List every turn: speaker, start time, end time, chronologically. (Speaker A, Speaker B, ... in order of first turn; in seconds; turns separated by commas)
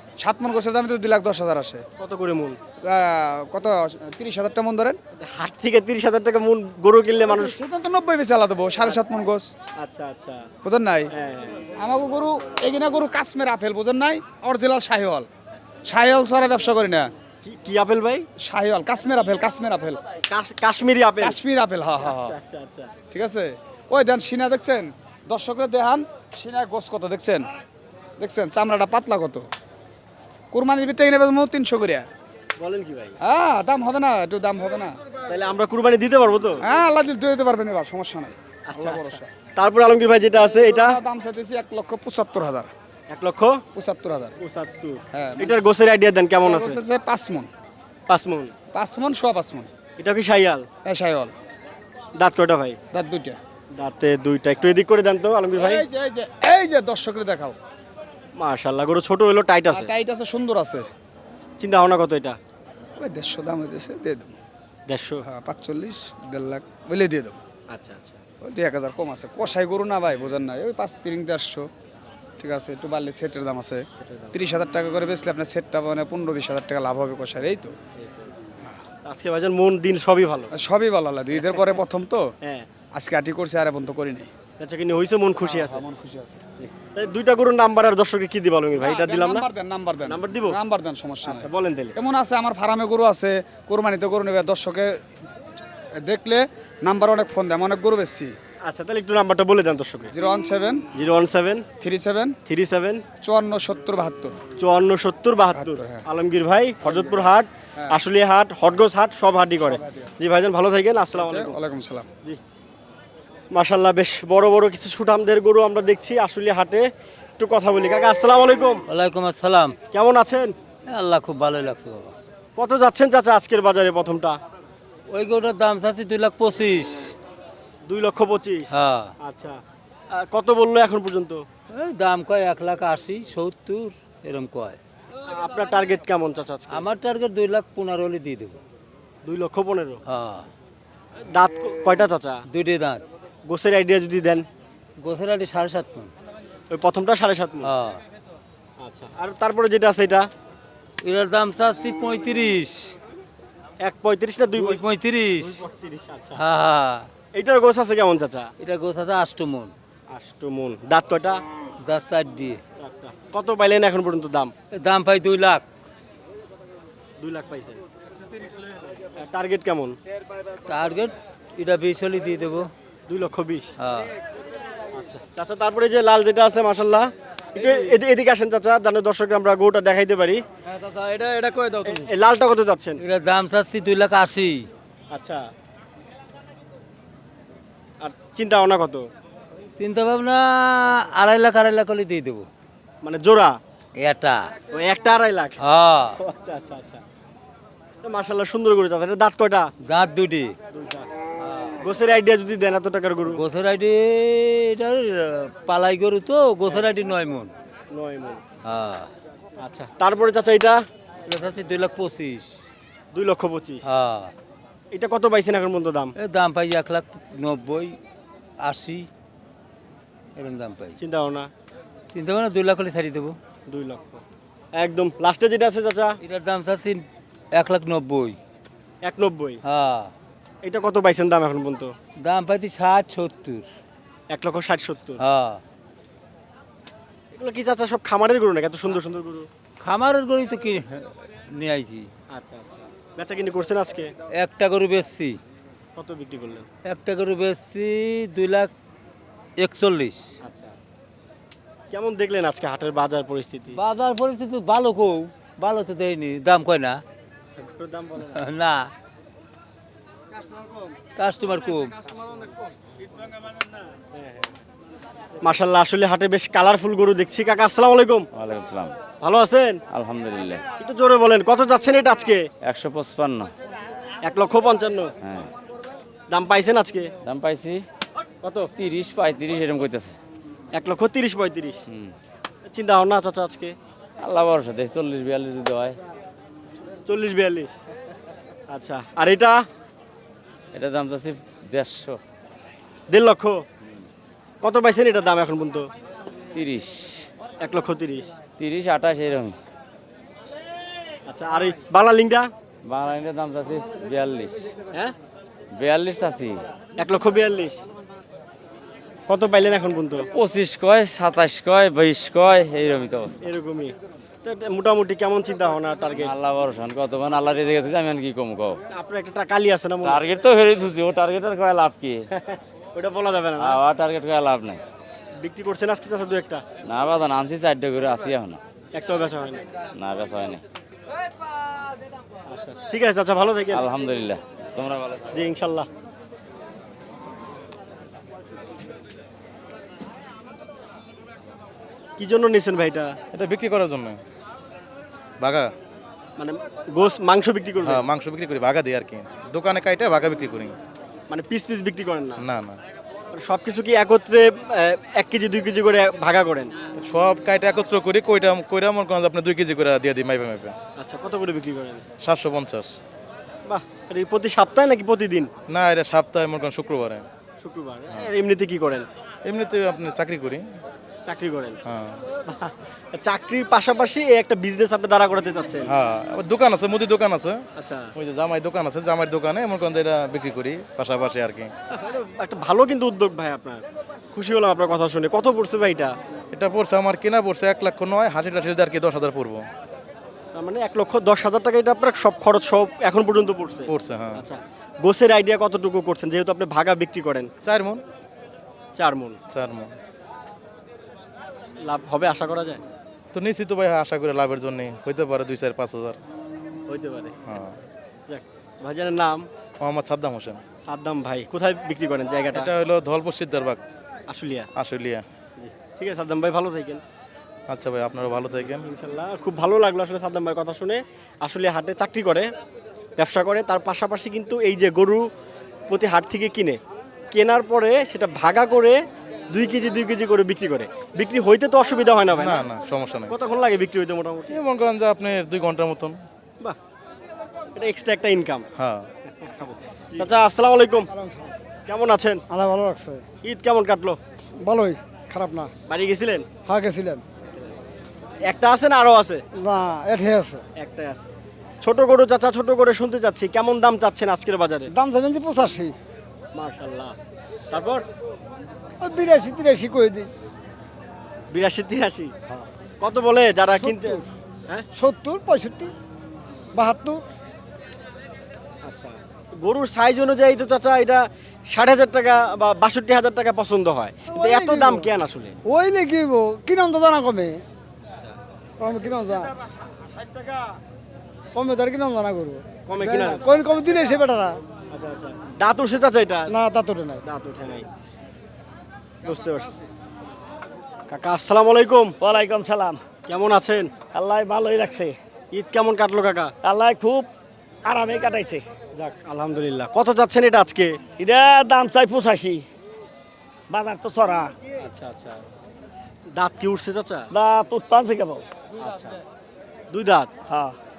Speaker A: 0.2-1.8, Speaker B: 2.0-2.6, Speaker A: 2.9-5.0, Speaker B: 5.2-7.6, Speaker A: 7.3-9.5, Speaker B: 9.8-10.5, Speaker A: 10.6-11.1, Speaker B: 11.2-11.6, Speaker A: 11.8-15.3, Speaker A: 15.9-17.1, Speaker B: 17.4-18.3, Speaker A: 18.4-20.0, Speaker B: 20.3-21.4, Speaker A: 21.2-22.4, Speaker B: 22.0-22.9, Speaker A: 23.1-27.5, Speaker A: 28.2-29.5, Speaker A: 30.5-32.1, Speaker B: 32.6-33.2, Speaker A: 33.2-35.0, Speaker B: 35.3-36.6, Speaker A: 36.6-39.3, Speaker B: 38.7-40.9, Speaker A: 40.4-42.7, Speaker B: 43.1-43.6, Speaker A: 43.8-44.4, Speaker B: 44.4-46.8, Speaker A: 45.1-45.6, Speaker A: 46.4-47.5, Speaker B: 48.1-48.5, Speaker A: 48.7-49.7, Speaker B: 50.0-50.7, Speaker A: 50.9-51.3, Speaker B: 52.2-52.8, Speaker A: 52.9-53.4, Speaker B: 53.7-55.8, Speaker A: 55.6-57.6, Speaker B: 58.4-59.9, Speaker A: 59.7-60.8, Speaker B: 61.6-62.4, Speaker A: 63.0-64.3, Speaker B: 64.9-65.2, Speaker A: 65.3-67.4, Speaker B: 67.7-68.2, Speaker A: 68.4-71.7, Speaker A: 72.4-77.7, Speaker B: 74.0-74.4, Speaker B: 78.0-78.3, Speaker B: 79.0-80.5, Speaker A: 80.5-82.2, Speaker B: 82.4-82.7, Speaker A: 83.0-84.3, Speaker B: 84.6-85.8, Speaker A: 85.4-86.4, Speaker B: 86.6-89.5, Speaker A: 88.8-94.9, Speaker B: 90.1-90.5, Speaker B: 91.2-92.0, Speaker A: 96.0-98.3, Speaker B: 98.6-100.1, Speaker A: 100.1-100.8, Speaker B: 100.9-101.7, Speaker A: 101.8-102.4, Speaker B: 102.5-103.0, Speaker A: 103.2-104.4, Speaker B: 104.6-111.6, Speaker A: 105.5-106.0, Speaker A: 106.8-108.0, Speaker A: 109.6-110.2, Speaker A: 111.2-112.1, Speaker B: 113.5-116.8, Speaker B: 117.4-118.8, Speaker C: 118.9-119.8, Speaker B: 119.9-120.5, Speaker C: 120.9-122.1, Speaker B: 122.6-124.4, Speaker C: 125.1-127.1, Speaker B: 127.9-128.7, Speaker C: 128.7-129.1, Speaker B: 129.2-129.6, Speaker B: 130.1-131.4, Speaker C: 131.7-134.8, Speaker B: 135.3-136.8, Speaker C: 136.7-138.6, Speaker B: 139.2-140.0, Speaker C: 140.1-140.5, Speaker B: 141.3-142.4, Speaker C: 142.5-143.0, Speaker B: 143.5-144.5, Speaker C: 145.0-146.1, Speaker B: 146.7-147.7, Speaker C: 147.6-148.0, Speaker B: 148.8-150.3, Speaker C: 151.0-152.9, Speaker B: 153.8-154.8, Speaker C: 154.6-155.6, Speaker B: 155.4-156.4, Speaker C: 156.4-157.1, Speaker B: 157.3-158.5, Speaker C: 158.6-159.7, Speaker B: 160.1-161.4, Speaker C: 161.8-162.6, Speaker B: 162.8-164.5, Speaker C: 164.7-165.6, Speaker B: 167.2-167.8, Speaker B: 169.2-170.0, Speaker C: 170.7-172.7, Speaker B: 173.1-173.7, Speaker C: 173.8-174.1, Speaker B: 174.9-183.0, Speaker C: 183.0-184.7, Speaker B: 185.1-185.4, Speaker B: 188.0-189.1, Speaker C: 189.8-192.5, Speaker B: 193.0-193.6, Speaker C: 194.0-194.5, Speaker B: 194.7-195.6, Speaker C: 195.6-196.2, Speaker B: 196.2-197.0, Speaker B: 198.0-199.7, Speaker C: 199.9-200.5, Speaker B: 200.7-201.1, Speaker C: 201.4-201.8, Speaker B: 201.8-203.4, Speaker C: 203.3-207.5, Speaker B: 207.9-208.4, Speaker C: 208.7-209.1, Speaker B: 209.6-210.8, Speaker C: 211.3-212.5, Speaker B: 213.1-213.8, Speaker C: 213.8-214.3, Speaker B: 214.9-216.1, Speaker C: 216.2-218.0, Speaker C: 218.6-219.1, Speaker C: 220.4-221.0, Speaker B: 221.0-221.5, Speaker C: 222.1-223.4, Speaker B: 223.7-224.2, Speaker B: 224.8-226.1, Speaker C: 226.2-228.4, Speaker B: 229.0-229.6, Speaker C: 229.7-230.1, Speaker B: 230.6-231.9, Speaker C: 232.2-233.7, Speaker B: 234.3-235.2, Speaker C: 235.2-235.6, Speaker B: 237.3-239.5, Speaker C: 239.8-242.1, Speaker B: 242.3-244.1, Speaker C: 244.4-245.4, Speaker B: 246.0-246.7, Speaker C: 246.9-248.7, Speaker C: 249.6-250.2, Speaker B: 250.4-250.7, Speaker B: 251.9-253.8, Speaker C: 253.7-257.0, Speaker B: 257.6-258.4, Speaker C: 258.3-258.8, Speaker C: 261.2-261.9, Speaker B: 264.1-264.5, Speaker B: 265.4-268.3, Speaker D: 268.4-268.9, Speaker B: 269.2-269.8, Speaker D: 269.9-270.6, Speaker B: 270.8-272.5, Speaker D: 272.6-273.5, Speaker B: 274.2-275.1, Speaker D: 275.2-275.5, Speaker B: 276.3-277.1, Speaker D: 277.2-277.8, Speaker B: 278.4-278.7, Speaker D: 278.8-280.1, Speaker B: 280.7-281.8, Speaker B: 282.7-283.8, Speaker D: 284.2-286.0, Speaker B: 287.1-287.7, Speaker B: 288.7-289.6, Speaker D: 290.7-292.2, Speaker B: 293.1-293.6, Speaker B: 294.6-295.9, Speaker D: 296.5-297.2, Speaker B: 297.6-298.3, Speaker D: 298.6-299.6, Speaker B: 301.3-302.5, Speaker D: 302.9-304.6, Speaker D: 305.8-306.6, Speaker B: 307.0-307.8, Speaker B: 309.3-310.3, Speaker D: 310.3-313.4, Speaker B: 313.4-316.4, Speaker D: 316.2-318.8, Speaker B: 318.9-320.2, Speaker D: 320.0-322.2, Speaker B: 322.4-323.8, Speaker D: 323.6-324.8, Speaker B: 325.4-326.6, Speaker D: 326.8-328.6, Speaker B: 328.9-329.6, Speaker D: 330.0-330.6, Speaker B: 332.5-333.9, Speaker D: 333.7-335.5, Speaker B: 335.3-335.9, Speaker B: 342.2-343.1, Speaker E: 343.3-344.2, Speaker E: 345.4-345.7, Speaker B: 346.4-348.0, Speaker E: 347.8-350.8, Speaker B: 351.3-352.4, Speaker E: 352.4-352.8, Speaker B: 353.3-356.7, Speaker E: 357.0-360.8, Speaker B: 361.0-362.1, Speaker E: 362.2-362.9, Speaker B: 363.7-365.5, Speaker E: 365.7-367.2, Speaker B: 367.6-369.1, Speaker E: 369.4-370.6, Speaker B: 371.2-371.8, Speaker E: 371.9-372.2, Speaker B: 372.5-375.9, Speaker E: 375.9-377.6, Speaker B: 377.8-378.1, Speaker E: 378.2-381.7, Speaker B: 381.9-386.1, Speaker E: 386.5-389.6, Speaker B: 390.5-397.5, Speaker E: 393.9-394.4, Speaker E: 397.6-398.0, Speaker B: 399.0-399.4, Speaker E: 399.5-399.9, Speaker B: 401.8-402.8, Speaker E: 403.3-406.2, Speaker B: 406.9-407.4, Speaker E: 407.5-407.8, Speaker B: 408.3-409.5, Speaker E: 409.8-410.6, Speaker B: 410.8-412.7, Speaker E: 412.5-413.8, Speaker B: 414.3-414.7, Speaker E: 414.8-415.2, Speaker B: 415.6-417.0, Speaker E: 417.7-418.9, Speaker B: 418.6-422.5, Speaker B: 423.2-425.3, Speaker B: 425.9-426.8, Speaker B: 427.3-429.0, Speaker B: 429.5-432.6, Speaker E: 432.3-433.3, Speaker B: 433.3-434.5, Speaker E: 434.5-436.2, Speaker B: 437.8-438.7, Speaker E: 438.8-439.1, Speaker B: 439.4-441.1, Speaker F: 441.1-441.5, Speaker B: 441.9-442.4, Speaker F: 442.5-443.2, Speaker B: 443.4-444.2, Speaker F: 444.6-445.7, Speaker B: 445.9-446.5, Speaker F: 446.7-447.2, Speaker B: 448.5-449.4, Speaker F: 449.6-450.6, Speaker B: 450.8-451.3, Speaker B: 451.8-454.9, Speaker F: 454.9-455.9, Speaker B: 456.5-457.2, Speaker B: 457.7-458.1, Speaker F: 459.0-460.3, Speaker B: 461.5-464.9, Speaker F: 463.7-464.2, Speaker F: 464.9-465.9, Speaker F: 466.8-467.2, Speaker B: 468.9-475.6, Speaker F: 474.3-475.1, Speaker F: 475.7-477.6, Speaker F: 478.8-479.6, Speaker G: 479.6-480.6, Speaker F: 481.5-484.6, Speaker B: 482.9-483.7, Speaker B: 484.9-486.5, Speaker F: 486.5-487.2, Speaker B: 487.2-487.9, Speaker B: 489.2-489.8, Speaker B: 491.1-492.2, Speaker G: 492.2-493.0, Speaker B: 493.3-494.0, Speaker G: 494.1-495.1, Speaker B: 495.5-496.5, Speaker G: 496.6-497.3, Speaker G: 497.9-498.6, Speaker B: 498.9-501.0, Speaker G: 501.2-502.6, Speaker G: 503.7-504.5, Speaker B: 504.8-505.4, Speaker B: 506.3-507.3, Speaker G: 507.3-508.4, Speaker B: 508.8-509.2, Speaker B: 509.9-510.4, Speaker G: 510.5-510.7